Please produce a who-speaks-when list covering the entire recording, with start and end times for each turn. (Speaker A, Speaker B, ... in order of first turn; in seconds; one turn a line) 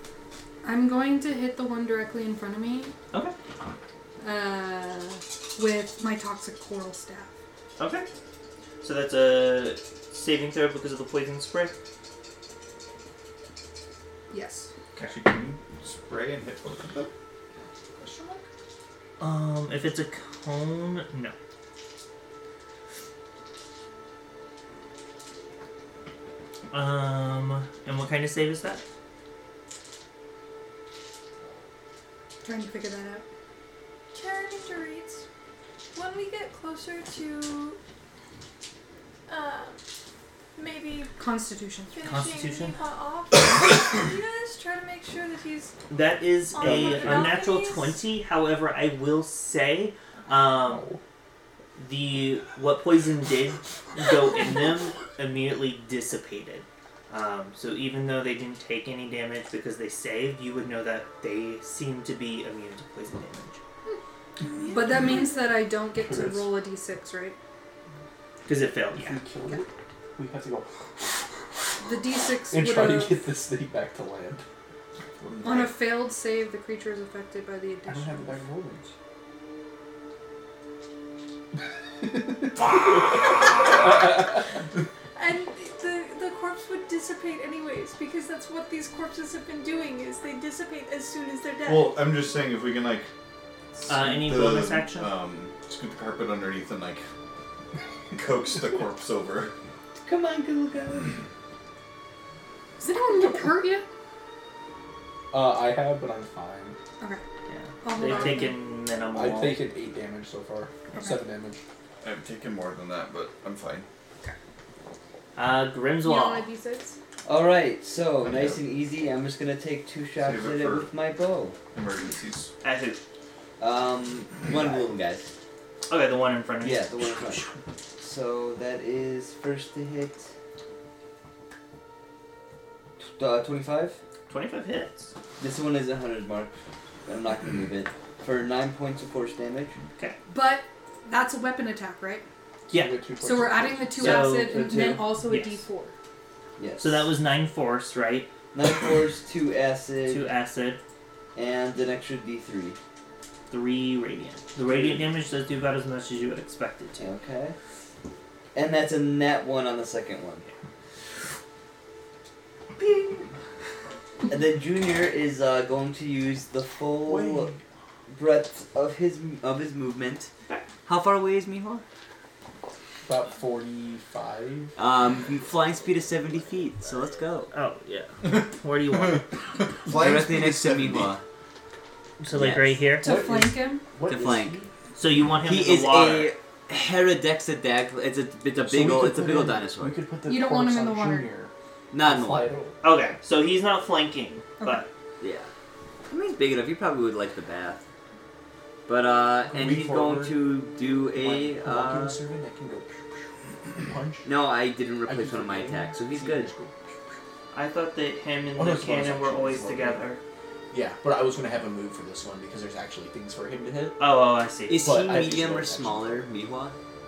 Speaker A: 0.6-2.9
Speaker A: 4.2-7.3
Speaker B: 7.8-8.1
Speaker B: 8.8-11.7
Speaker A: 14.3-14.7
Speaker C: 15.0-17.1
Speaker B: 19.2-21.3
Speaker B: 26.7-28.8
Speaker A: 32.4-33.2
Speaker D: 34.1-35.2
Speaker D: 35.9-37.8
Speaker D: 39.3-39.8
Speaker D: 40.5-41.1
Speaker A: 41.2-42.0
Speaker D: 41.9-45.7
Speaker B: 42.0-42.8
Speaker B: 45.9-50.9
Speaker D: 46.5-48.0
Speaker E: 50.6-51.0
Speaker B: 51.8-63.6
Speaker A: 64.7-67.4
Speaker E: 65.9-66.5
Speaker B: 68.5-69.2
Speaker E: 68.9-71.3
Speaker A: 71.8-73.4
Speaker E: 72.5-74.4
Speaker E: 75.2-75.8
Speaker A: 75.4-78.4
Speaker E: 77.9-78.9
Speaker E: 82.0-84.4
Speaker D: 85.2-92.0
Speaker C: 91.6-93.1
Speaker B: 93.8-95.1
Speaker C: 93.8-97.0
Speaker C: 98.1-99.5
Speaker F: 100.0-101.2
Speaker A: 102.8-103.8
Speaker E: 105.3-106.8
Speaker B: 107.5-109.7
Speaker A: 107.8-108.6
Speaker E: 109.1-111.6
Speaker C: 112.0-113.9
Speaker B: 115.3-116.5
Speaker A: 116.0-117.0
Speaker F: 117.2-121.6
Speaker C: 118.2-118.6
Speaker C: 120.2-120.9
Speaker C: 121.7-122.5
Speaker B: 122.6-123.0
Speaker F: 123.6-125.3
Speaker B: 125.9-127.5
Speaker F: 126.6-130.3
Speaker F: 133.0-134.0
Speaker B: 134.3-135.1
Speaker F: 135.4-136.5
Speaker F: 137.0-139.8
Speaker A: 140.3-142.2
Speaker B: 142.7-143.0
Speaker E: 142.7-144.2
Speaker A: 143.2-145.9
Speaker B: 143.9-145.6
Speaker F: 146.6-147.1
Speaker B: 146.8-148.3
Speaker F: 148.5-150.3
Speaker B: 150.1-150.8
Speaker F: 151.3-152.8
Speaker B: 153.5-157.1
Speaker F: 154.7-155.0
Speaker F: 157.0-157.6
Speaker F: 158.5-160.4
Speaker F: 162.8-163.3
Speaker F: 164.3-167.5
Speaker E: 167.0-167.6
Speaker F: 168.1-170.3
Speaker F: 170.8-171.8
Speaker E: 173.1-174.7
Speaker F: 174.8-177.5
Speaker B: 177.5-179.3
Speaker C: 179.8-181.1
Speaker F: 179.9-181.2
Speaker B: 182.2-183.1
Speaker F: 182.3-182.9
Speaker A: 183.0-183.9
Speaker E: 183.0-184.7
Speaker F: 184.1-184.6
Speaker B: 184.9-186.3
Speaker F: 185.4-190.0
Speaker E: 188.6-192.8
Speaker A: 190.2-191.3
Speaker F: 191.9-192.5
Speaker B: 192.8-194.9
Speaker F: 195.2-195.5
Speaker F: 196.1-197.8
Speaker F: 198.9-202.2
Speaker E: 199.4-200.4
Speaker E: 201.1-204.3
Speaker F: 204.2-206.5
Speaker E: 205.0-206.7
Speaker B: 207.5-210.2
Speaker E: 208.6-210.1
Speaker E: 210.7-214.0
Speaker B: 214.0-214.9
Speaker F: 214.7-216.8
Speaker E: 214.8-216.2